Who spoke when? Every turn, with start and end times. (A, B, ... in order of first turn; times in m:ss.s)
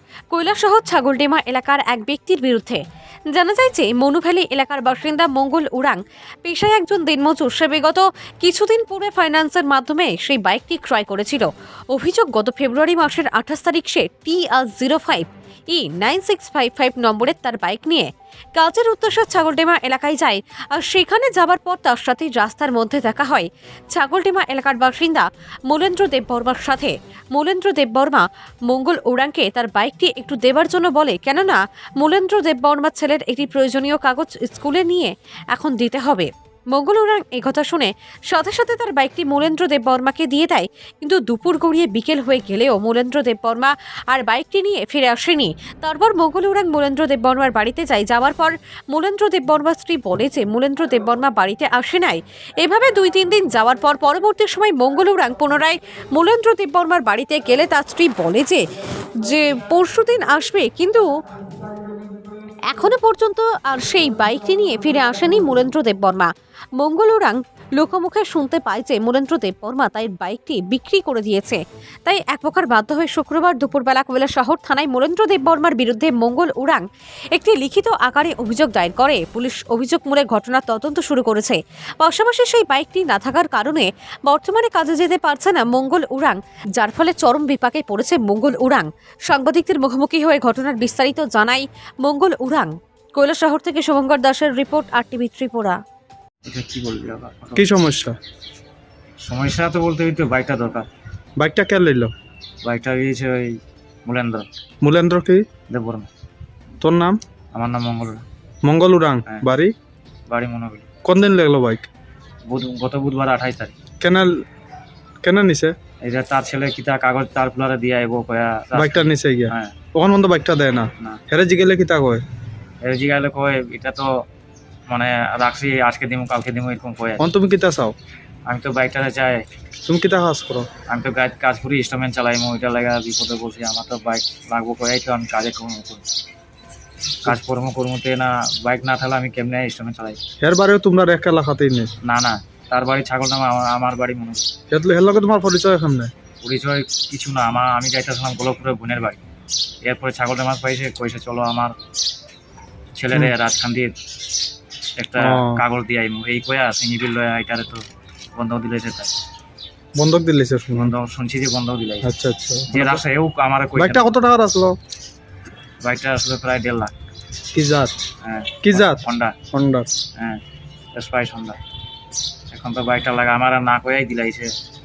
0:00.3-0:58.6 A
0:59.2-1:01.1 A
1:02.7-1:35.8 A
1:36.5-1:37.7 B
1:37.6-1:38.2 C
1:39.2-1:40.9 B
1:41.4-1:42.1 C
1:42.6-1:44.5 B
1:44.8-1:45.4 C
1:45.7-1:46.1 B
1:46.8-1:47.2 C
1:47.5-1:48.2 B
1:48.6-1:49.7 C
1:50.3-1:50.9 B
1:51.0-1:51.9 C
1:52.5-1:53.7 B
1:54.0-1:54.3 C
1:55.2-1:55.7 C
1:56.0-1:59.8 B
1:58.7-2:02.2 C
2:02.8-2:04.1 B
2:04.9-2:07.3 B
2:07.2-2:07.9 C
2:08.5-2:09.4 B
2:09.9-2:10.7 C
2:10.9-2:16.0 B
2:17.2-2:20.2 B
2:20.4-2:21.9 C
2:22.0-2:24.5 B
2:24.7-2:26.1 C
2:26.4-2:29.2 B
2:29.9-2:31.7 B
2:32.9-2:33.9 B
2:35.0-2:37.8 B
2:35.2-2:35.6 C
2:38.4-2:39.1 B
2:40.0-2:40.9 C
2:40.7-2:42.1 B
2:42.0-2:43.0 C
2:42.7-2:44.1 B
2:43.8-2:44.8 C
2:45.8-2:46.9 B
2:47.5-2:48.0 C
2:48.2-2:49.4 B
2:48.6-2:49.9 C
2:51.0-2:51.6 B
2:52.5-2:54.5 B